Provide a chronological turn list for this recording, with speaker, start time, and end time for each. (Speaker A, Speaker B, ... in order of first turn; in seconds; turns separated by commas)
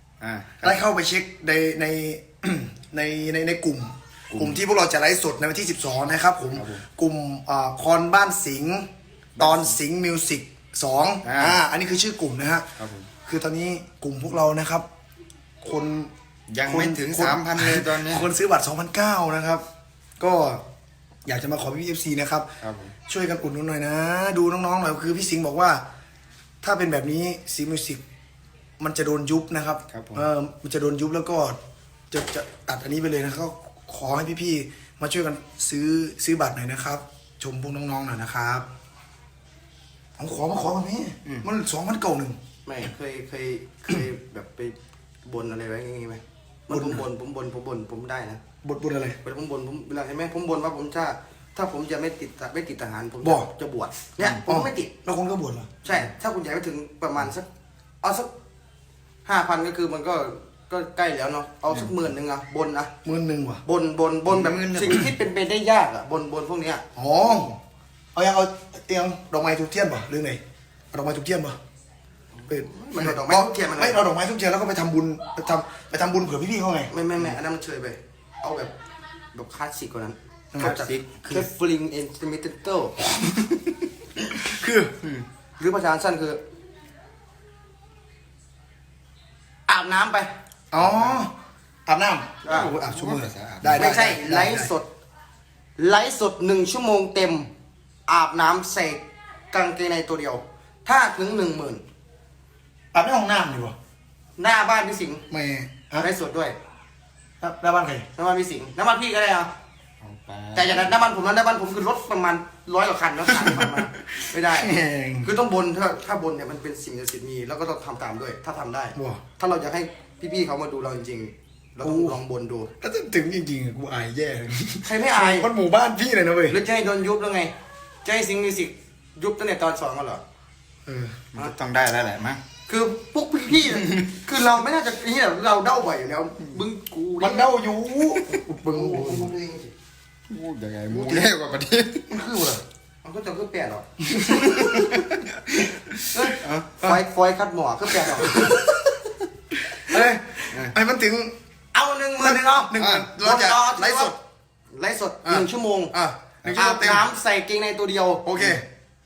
Speaker A: 0.2-0.7, Speaker B: 0.6-8.9, Speaker A: 4.3-4.6, Speaker A: 6.5-6.8, Speaker A: 9.3-9.7, Speaker B: 9.4-12.7, Speaker A: 11.2-11.6, Speaker A: 12.8-13.1, Speaker B: 13.2-14.8, Speaker B: 15.6-16.1, Speaker A: 16.5-18.2, Speaker B: 16.6-19.6, Speaker B: 20.2-20.6, Speaker B: 21.2-22.5, Speaker A: 22.6-22.9, Speaker B: 23.0-25.8, Speaker B: 26.6-28.0, Speaker B: 28.8-31.6, Speaker A: 29.9-30.2, Speaker B: 32.1-38.6, Speaker B: 40.2-42.4, Speaker C: 42.6-48.4, Speaker B: 46.7-47.0, Speaker B: 48.6-49.2, Speaker C: 49.2-54.9, Speaker B: 53.2-53.5, Speaker B: 54.5-55.7, Speaker C: 55.8-57.5, Speaker C: 58.0-58.3, Speaker C: 59.2-62.9, Speaker B: 63.0-63.6, Speaker C: 63.6-66.8, Speaker A: 64.3-65.1, Speaker B: 67.0-67.5, Speaker B: 68.1-70.4, Speaker B: 70.9-71.6, Speaker C: 72.4-74.0, Speaker B: 72.5-76.9, Speaker C: 76.9-78.7, Speaker C: 79.3-83.0, Speaker A: 80.6-81.5, Speaker A: 83.2-83.6, Speaker B: 84.4-84.9, Speaker C: 85.6-86.4, Speaker C: 89.7-90.3, Speaker B: 90.7-91.3, Speaker B: 91.9-94.7, Speaker C: 92.4-92.7, Speaker A: 92.5-93.9, Speaker C: 93.8-94.8, Speaker C: 95.8-97.5, Speaker C: 98.1-99.0, Speaker C: 99.5-101.8, Speaker B: 102.9-103.7, Speaker C: 104.4-105.2, Speaker B: 105.3-106.1, Speaker C: 106.0-106.5, Speaker B: 107.4-108.0, Speaker C: 108.2-109.5, Speaker A: 110.0-110.9, Speaker C: 110.5-122.7, Speaker B: 113.3-113.6, Speaker B: 114.5-115.3, Speaker B: 118.9-119.2, Speaker B: 121.8-122.2, Speaker B: 122.8-126.6, Speaker C: 124.8-125.5, Speaker C: 126.5-127.5, Speaker C: 128.0-130.2, Speaker B: 130.8-131.2, Speaker A: 131.3-132.4, Speaker C: 132.7-137.5, Speaker A: 133.8-134.1, Speaker B: 137.2-139.3, Speaker C: 138.7-139.7, Speaker A: 140.3-142.1, Speaker B: 140.9-141.3, Speaker B: 142.1-142.6, Speaker C: 143.0-143.9, Speaker B: 144.1-145.7, Speaker A: 144.2-146.7, Speaker C: 146.1-148.5, Speaker B: 148.1-148.7, Speaker B: 149.6-151.3, Speaker C: 151.7-154.2, Speaker B: 152.2-154.1, Speaker A: 152.8-153.1, Speaker C: 154.7-155.9, Speaker B: 155.2-157.1, Speaker C: 156.5-158.2, Speaker B: 158.2-158.6